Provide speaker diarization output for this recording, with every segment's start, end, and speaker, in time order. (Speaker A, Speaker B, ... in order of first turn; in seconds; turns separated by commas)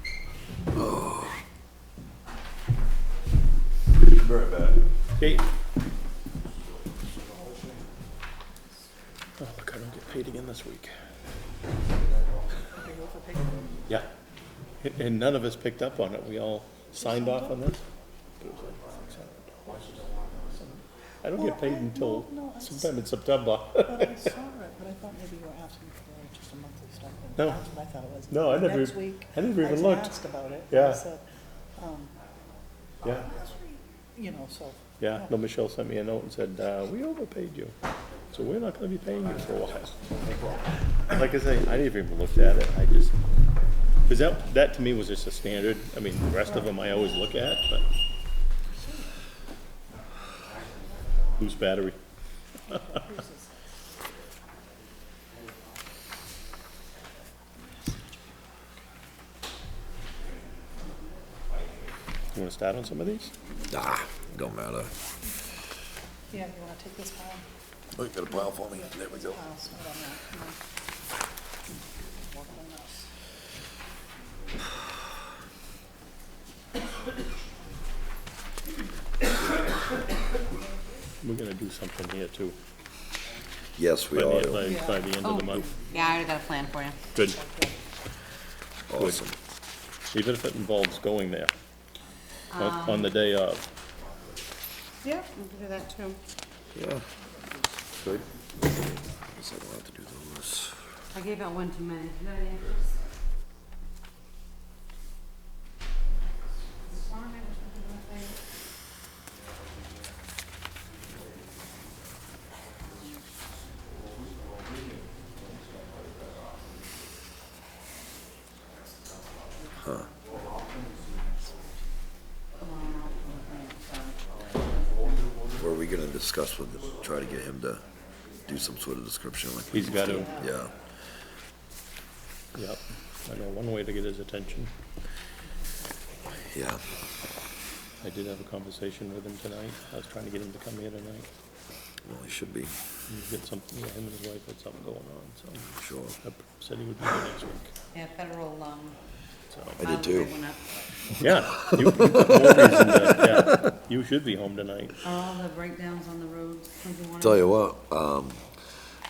Speaker A: 0.7-1.4, Speaker B: 9.4-10.9, Speaker C: 12.9-13.6, Speaker B: 14.8-17.9, Speaker B: 18.4-19.9, Speaker B: 20.6-24.2, Speaker C: 21.5-22.6, Speaker C: 23.9-31.2, Speaker B: 27.4-27.6, Speaker B: 28.3-31.1, Speaker C: 31.8-32.1, Speaker C: 33.3-34.8, Speaker B: 35.0-37.8, Speaker B: 38.3-40.0, Speaker B: 41.1-43.1, Speaker B: 44.1-47.9, Speaker B: 51.4-52.0, Speaker C: 52.9-53.3, Speaker B: 62.3-63.3, Speaker A: 63.7-64.9, Speaker C: 66.3-67.4, Speaker A: 68.0-69.4, Speaker C: 69.4-70.5, Speaker C: 72.3-73.0, Speaker B: 81.2-82.6, Speaker A: 83.8-84.8, Speaker B: 84.1-85.7, Speaker D: 85.2-87.0, Speaker B: 87.1-87.4, Speaker C: 87.4-87.8, Speaker A: 88.9-89.3, Speaker B: 89.0-89.3, Speaker B: 90.1-91.5, Speaker D: 92.5-93.0, Speaker B: 92.6-93.6, Speaker D: 95.2-96.2, Speaker A: 96.8-97.0, Speaker A: 98.0-100.8, Speaker D: 101.1-102.9, Speaker D: 107.0-108.1, Speaker A: 119.8-120.1, Speaker D: 122.6-124.2, Speaker A: 125.6-127.8, Speaker A: 128.4-130.7, Speaker B: 129.7-130.4, Speaker C: 130.0-130.4, Speaker B: 132.6-134.7, Speaker A: 136.5-136.8, Speaker B: 138.0-141.3, Speaker A: 142.1-142.8, Speaker B: 143.1-145.7, Speaker A: 145.7-146.2, Speaker B: 146.2-147.7, Speaker D: 147.9-149.0, Speaker B: 149.5-149.8, Speaker A: 149.8-150.3, Speaker D: 149.8-150.6, Speaker B: 151.2-155.0, Speaker A: 151.6-153.6, Speaker D: 155.0-157.5, Speaker A: 157.2-158.4